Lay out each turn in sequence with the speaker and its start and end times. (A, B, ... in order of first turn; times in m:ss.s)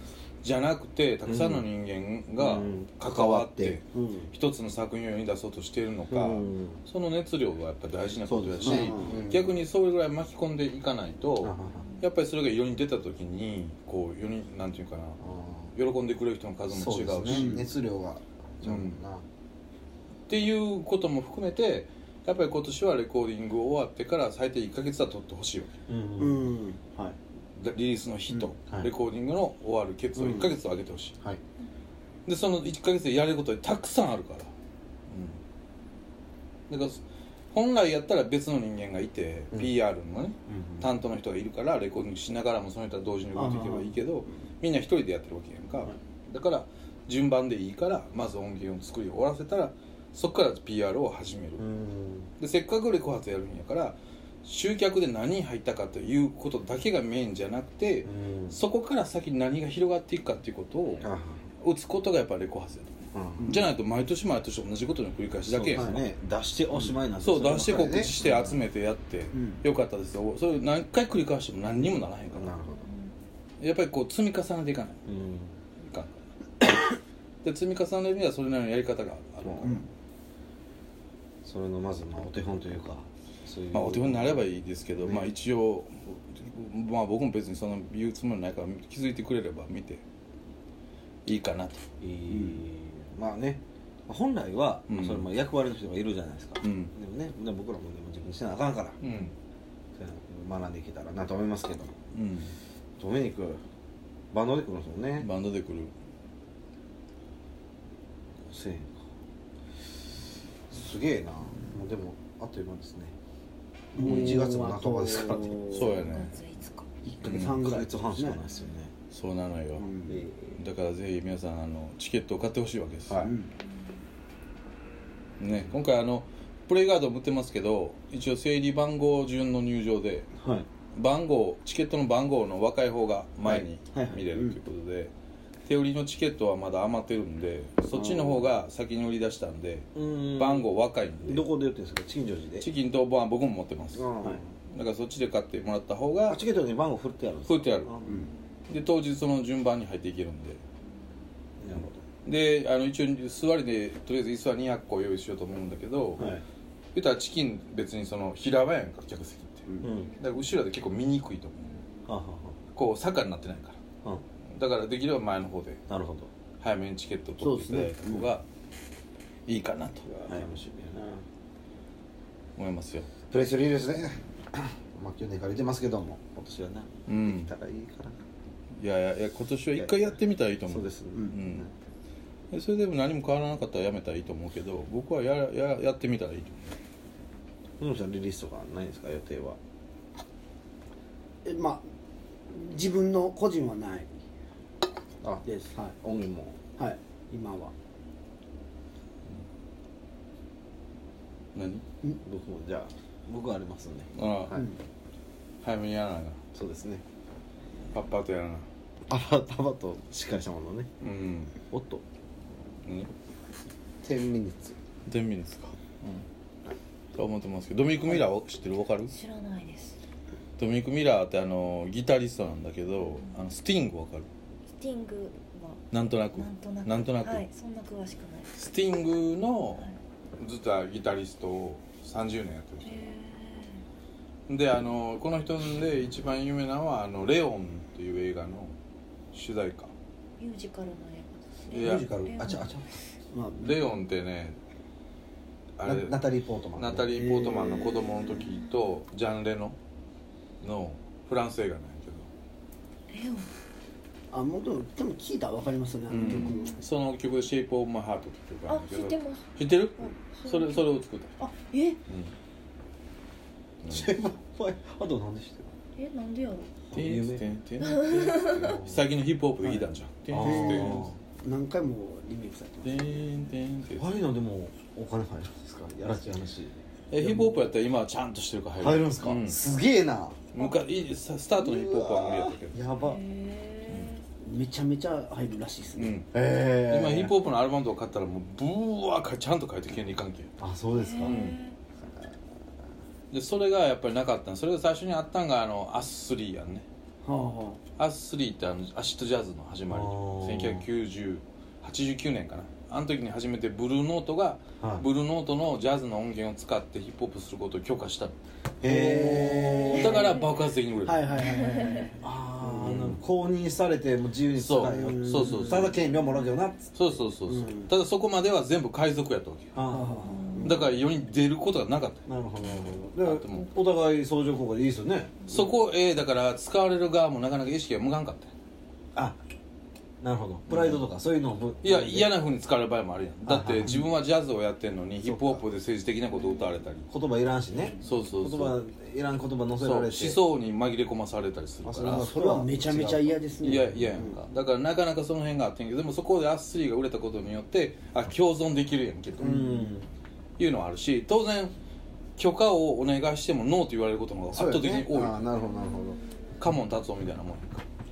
0:00.4-0:15.2 A
0:01.3-0:01.7 B
0:02.4-0:03.8 B
0:03.9-0:04.3 C
0:06.1-0:06.8 B
0:08.3-0:09.5 B
0:08.6-0:09.2 C
0:11.4-0:11.9 B
0:15.2-0:15.7 B
0:15.8-0:17.5 A
0:16.7-0:19.2 B
0:17.3-0:17.7 C
0:18.6-0:19.0 A
0:20.3-0:25.7 A
0:25.9-0:26.6 B
0:26.2-0:27.2 C
0:27.6-0:31.2 A
0:30.2-0:30.4 C
0:32.3-0:34.5 A
0:35.1-0:35.4 A
0:36.7-0:37.0 A
0:37.5-0:51.6 A
0:40.5-0:40.9 B
0:43.3-0:44.0 C
0:51.6-0:52.3 B
0:52.4-1:01.1 A
0:58.0-0:58.6 B
1:01.0-1:01.5 B
1:01.6-1:06.0 A
1:03.1-1:03.6 B
1:03.4-1:03.7 C
1:05.5-1:08.6 B
1:07.2-1:12.5 A
1:09.3-1:09.6 C
1:12.3-1:12.9 B
1:12.8-1:13.1 D
1:13.6-1:15.0 A
1:15.1-1:15.6 B
1:15.8-1:16.2 A
1:17.4-1:19.9 A
1:19.4-1:19.8 B
1:21.4-1:24.4 B
1:23.7-1:30.0 A
1:25.0-1:25.3 B
1:31.3-1:31.8 A
1:32.0-1:39.0 B
1:32.3-1:32.6 C
1:34.9-1:35.3 A
1:36.6-1:36.9 A
1:39.0-1:39.3 A
1:40.0-1:42.0 B
1:42.1-1:42.6 A
1:43.0-1:43.6 B
1:44.3-1:45.3 B
1:45.2-1:45.9 A
1:48.5-1:49.0 B
1:50.7-1:53.1 B
1:53.9-1:55.8 C
1:54.0-1:55.9 B
1:54.0-1:54.4 A
1:55.7-1:56.4 A
1:55.7-1:56.9 D
1:57.0-1:58.4 C
1:57.2-1:57.6 A
1:57.2-1:58.9 B
1:59.1-1:59.9 A
1:59.8-2:00.2 C
2:00.1-2:00.6 B
2:00.6-2:03.3 A
2:03.2-2:03.5 C
2:05.4-2:10.3 A
2:10.9-2:15.1 A
2:13.4-2:14.2 B
2:14.0-2:14.6 C
2:15.6-2:21.5 A
2:17.9-2:18.4 C
2:20.0-2:20.7 B
2:21.2-2:22.7 B
2:22.6-2:24.1 A
2:23.9-2:24.5 B
2:24.7-2:26.4 A
2:26.3-2:28.3 B
2:27.5-2:28.0 A
2:28.0-2:28.3 C
2:28.7-2:30.6 A
2:31.6-2:32.0 B
2:32.2-2:36.3 A
2:36.2-2:36.4 B
2:36.9-2:39.7 A
2:39.8-2:40.2 B
2:39.9-2:40.2 D
2:40.2-2:41.8 A
2:41.7-2:42.0 D
2:42.1-2:42.6 B
2:42.8-2:43.8 A
2:44.5-2:45.8 A
2:45.9-2:46.3 B
2:46.6-2:48.4 A
2:47.4-2:48.3 C
2:49.5-2:50.1 A
2:50.1-2:51.2 B
2:52.6-2:53.1 A
2:53.3-2:58.2 B
2:57.1-2:57.5 A
2:58.8-3:01.7 A
2:59.8-3:01.7 B
3:02.5-3:06.8 A
3:07.8-3:09.6 B
3:11.4-3:11.8 C
3:12.5-3:14.1 C
3:15.2-3:16.6 B
3:15.5-3:15.9 C
3:16.8-3:17.7 C
3:21.6-3:21.8 A
3:22.2-3:24.7 B
3:24.1-3:24.6 A
3:24.5-3:24.8 C
3:25.6-3:26.4 A
3:26.5-3:27.0 B
3:27.9-3:28.7 A
3:29.1-3:30.9 B
3:31.0-3:31.6 A
3:31.7-3:32.0 B
3:32.8-3:33.1 A
3:34.0-3:34.8 B
3:35.1-3:36.2 A
3:37.2-3:39.1 A
3:39.1-3:40.0 D
3:40.6-3:44.3 A
3:44.8-3:48.6 D
3:45.9-3:47.5 A
3:48.5-3:53.2 A
3:52.8-3:53.8 D
3:54.5-3:58.7 A
3:59.3-3:59.9 A
4:00.4-4:02.7 D
4:01.7-4:02.9 B
4:01.7-4:02.4 A
4:03.3-4:03.8 C
4:03.6-4:04.6 A
4:05.8-4:06.2 A
4:05.8-4:07.6 B
4:06.8-4:09.8 A
4:07.4-4:07.7 C
4:10.6-4:12.3 A
4:13.1-4:13.5 D
4:14.3-4:16.8 C
4:16.1-4:21.4 A
4:16.3-4:16.8 D
4:18.7-4:20.9 D
4:21.4-4:22.0 D
4:23.8-4:24.1 A
4:23.9-4:25.7 B
4:26.0-4:26.8 D
4:26.9-4:27.4 B
4:26.9-4:31.0 A
4:27.8-4:28.6 D
4:28.6-4:29.0 B
4:30.3-4:31.2 B
4:30.4-4:33.3 C
4:32.8-4:34.1 A
4:33.9-4:37.6 B
4:37.1-4:39.6 A
4:38.8-4:40.4 B
4:40.5-4:42.8 A
4:41.6-4:43.2 B
4:43.0-4:44.2 D
4:44.4-4:46.2 C
4:46.0-4:46.3 A
4:46.3-4:47.3 B
4:46.9-4:50.5 A
4:50.6-4:51.4 B
4:50.9-4:51.8 D
4:51.2-4:51.6 A
4:53.3-4:56.8 A
4:57.2-4:57.8 C
4:58.0-5:08.4 A
4:59.9-5:00.9 B
5:08.8-5:10.3 B
5:08.8-5:10.3 C
5:09.9-5:11.4 A
5:11.0-5:12.2 C
5:11.6-5:12.0 D
5:12.2-5:17.2 B
5:12.6-5:13.2 A
5:14.6-5:16.0 A
5:14.8-5:15.9 C
5:17.0-5:19.7 A
5:17.5-5:17.9 C
5:19.8-5:20.5 B
5:19.9-5:20.9 C
5:20.4-5:20.8 D
5:20.6-5:22.2 A
5:22.3-5:25.6 B
5:23.2-5:23.7 A
5:25.5-5:28.5 A
5:30.2-5:32.3 B
5:30.7-5:31.0 A
5:31.8-5:37.1 A
5:33.5-5:34.0 B
5:35.2-5:35.6 B
5:37.1-5:40.4 B
5:38.0-5:38.8 A
5:39.8-5:42.3 A
5:41.8-5:43.8 B
5:42.0-5:44.4 C
5:43.6-5:49.5 A
5:49.4-5:50.1 B
5:49.4-5:49.9 C
5:50.6-5:51.7 A
5:52.4-5:55.5 A
5:54.5-5:56.2 B
5:56.6-5:57.8 A